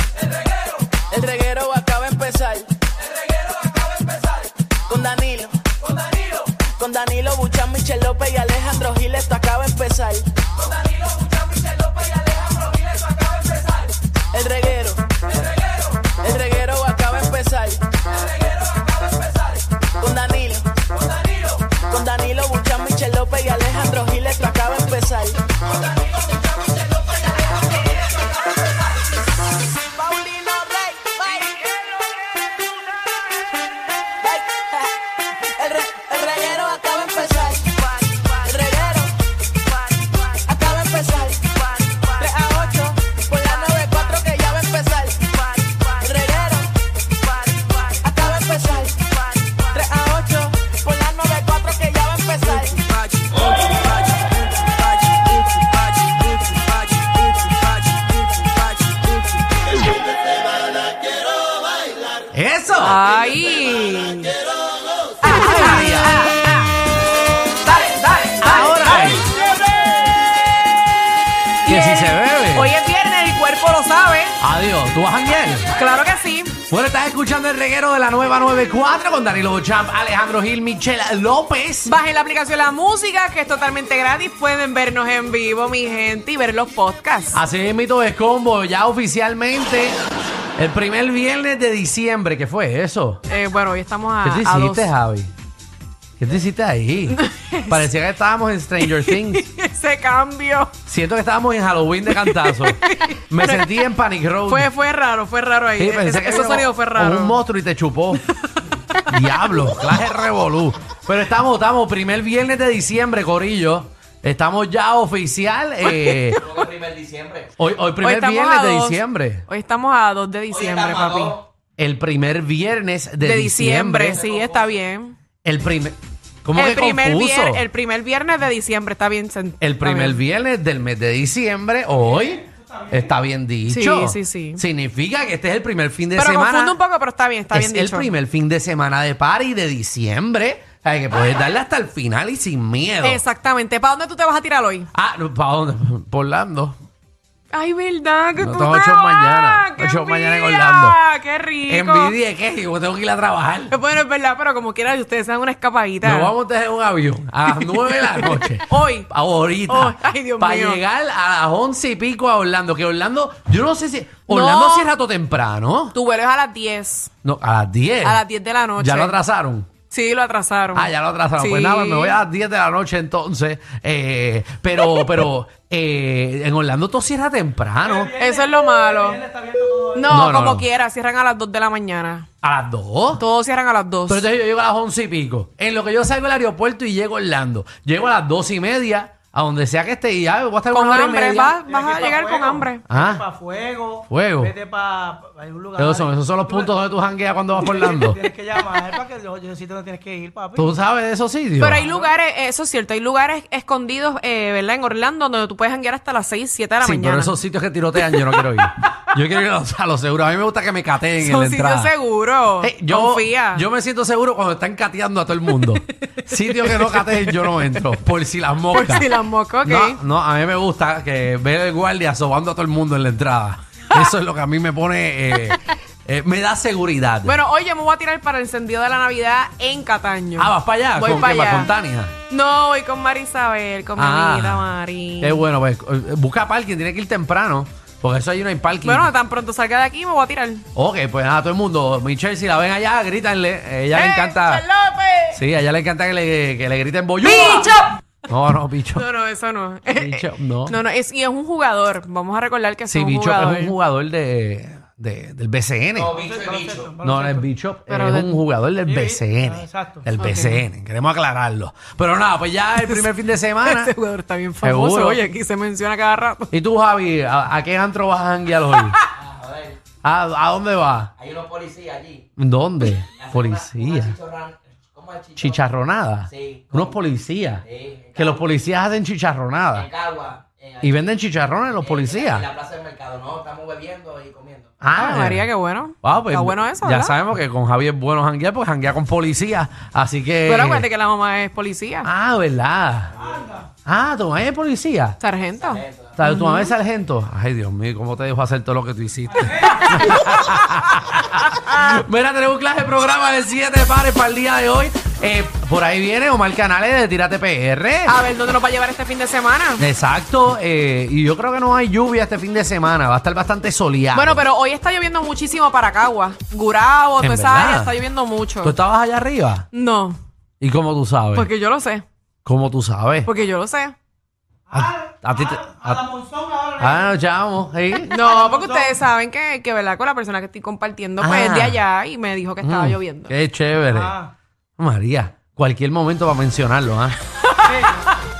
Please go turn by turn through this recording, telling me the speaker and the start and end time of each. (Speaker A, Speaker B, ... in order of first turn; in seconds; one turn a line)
Speaker A: 0.9-2.7
Speaker A: 4.8-5.5
Speaker A: 6.4-10.3
Speaker A: 14.3-15.4
Speaker A: 16.0-18.0
Speaker A: 19.9-20.7
Speaker A: 21.7-25.4
Speaker A: 29.9-31.6
Speaker A: 34.2-39.1
Speaker A: 40.3-46.7
Speaker A: 47.5-56.1
Speaker B: 62.3-63.0
Speaker C: 62.8-64.4
Speaker C: 65.2-66.7
Speaker B: 65.2-66.3
Speaker C: 67.6-69.3
Speaker B: 68.4-69.3
Speaker C: 71.6-74.4
Speaker B: 71.7-72.7
Speaker B: 74.4-75.7
Speaker C: 75.7-76.6
Speaker B: 76.7-81.9
Speaker C: 81.8-87.4
Speaker B: 87.3-90.0
Speaker B: 90.6-93.2
Speaker C: 93.3-94.9
Speaker B: 94.2-95.3
Speaker B: 96.2-99.5
Speaker C: 97.1-97.9
Speaker C: 98.8-100.7
Speaker B: 100.8-104.7
Speaker C: 102.1-103.8
Speaker C: 104.5-107.4
Speaker B: 105.8-108.2
Speaker C: 108.5-109.5
Speaker B: 109.1-116.4
Speaker C: 115.8-116.7
Speaker D: 116.4-117.5
Speaker B: 117.6-119.4
Speaker C: 118.0-121.4
Speaker D: 120.5-121.5
Speaker B: 121.8-124.2
Speaker C: 123.2-125.1
Speaker D: 124.1-124.8
Speaker B: 125.4-127.7
Speaker C: 126.5-130.2
Speaker B: 129.6-136.8
Speaker E: 132.6-132.8
Speaker C: 133.7-134.6
Speaker C: 136.1-138.1
Speaker B: 137.5-143.2
Speaker C: 143.0-144.9
Speaker B: 144.9-146.8
Speaker C: 147.5-152.1
Speaker B: 148.4-151.0
Speaker B: 151.7-153.7
Speaker C: 153.7-156.3
Speaker B: 156.0-165.9
Speaker C: 157.5-159.1
Speaker C: 159.7-160.8
Speaker C: 164.3-164.9
Speaker C: 165.9-167.1
Speaker B: 167.2-168.2
Speaker C: 168.0-169.2
Speaker B: 168.8-169.7
Speaker C: 169.9-172.2
Speaker B: 170.7-178.1
Speaker E: 177.8-180.2
Speaker C: 178.2-179.2
Speaker C: 179.9-182.2
Speaker B: 180.1-180.7
Speaker B: 182.4-183.2
Speaker C: 183.2-184.2
Speaker B: 184.1-191.6
Speaker C: 190.7-192.8
Speaker E: 191.5-196.7
Speaker B: 192.9-193.2
Speaker B: 194.1-194.5
Speaker B: 195.8-198.2
Speaker E: 197.6-200.7
Speaker B: 200.6-201.8
Speaker C: 201.6-207.3
Speaker E: 201.8-202.2
Speaker B: 206.8-211.9
Speaker C: 208.1-208.5
Speaker C: 211.2-213.6
Speaker B: 212.6-219.1
Speaker C: 216.5-217.8
Speaker C: 218.7-220.0
Speaker B: 219.6-227.4
Speaker C: 227.2-231.7
Speaker B: 230.4-232.1
Speaker C: 232.3-235.4
Speaker B: 234.0-234.7
Speaker B: 235.2-239.1
Speaker C: 238.8-240.6
Speaker B: 240.7-244.6
Speaker C: 243.9-245.4
Speaker B: 245.3-249.1
Speaker C: 247.2-248.0
Speaker C: 248.9-253.7
Speaker B: 249.9-250.8
Speaker B: 252.9-256.2
Speaker D: 255.9-256.9
Speaker E: 256.1-257.4
Speaker B: 257.0-263.9
Speaker C: 257.9-258.4
Speaker E: 258.9-260.0
Speaker C: 260.1-260.6
Speaker C: 262.8-263.1
Speaker C: 263.6-266.5
Speaker B: 264.6-265.2
Speaker B: 266.5-269.0
Speaker C: 268.7-269.1
Speaker D: 269.1-269.8
Speaker B: 270.0-271.1
Speaker D: 271.2-272.2
Speaker B: 272.4-274.2
Speaker D: 273.1-275.6
Speaker B: 275.4-277.6
Speaker D: 276.3-276.9
Speaker D: 277.6-278.5
Speaker B: 278.1-279.9
Speaker D: 279.7-281.0
Speaker B: 280.8-282.5
Speaker D: 281.8-284.7
Speaker B: 284.8-285.5
Speaker C: 284.9-287.1
Speaker B: 286.0-290.9
Speaker C: 290.4-292.1
Speaker B: 292.0-293.1
Speaker B: 293.9-295.2
Speaker C: 295.2-296.7
Speaker D: 295.6-296.1
Speaker B: 296.2-308.2
Speaker E: 299.4-299.8
Speaker C: 299.8-300.5
Speaker C: 308.1-309.8
Speaker B: 309.8-314.4
Speaker C: 314.1-318.7
Speaker B: 317.2-317.9
Speaker B: 318.6-319.6
Speaker C: 319.7-320.2
Speaker B: 320.6-321.5
Speaker C: 321.3-322.0
Speaker B: 322.4-323.3
Speaker C: 323.2-323.9
Speaker E: 324.7-327.1
Speaker B: 324.7-326.0
Speaker B: 326.8-328.2
Speaker C: 328.0-333.3
Speaker E: 328.2-329.0
Speaker B: 331.2-331.8
Speaker B: 332.6-334.1
Speaker E: 333.9-334.3
Speaker B: 334.8-337.2
Speaker C: 337.4-338.0
Speaker E: 337.6-338.1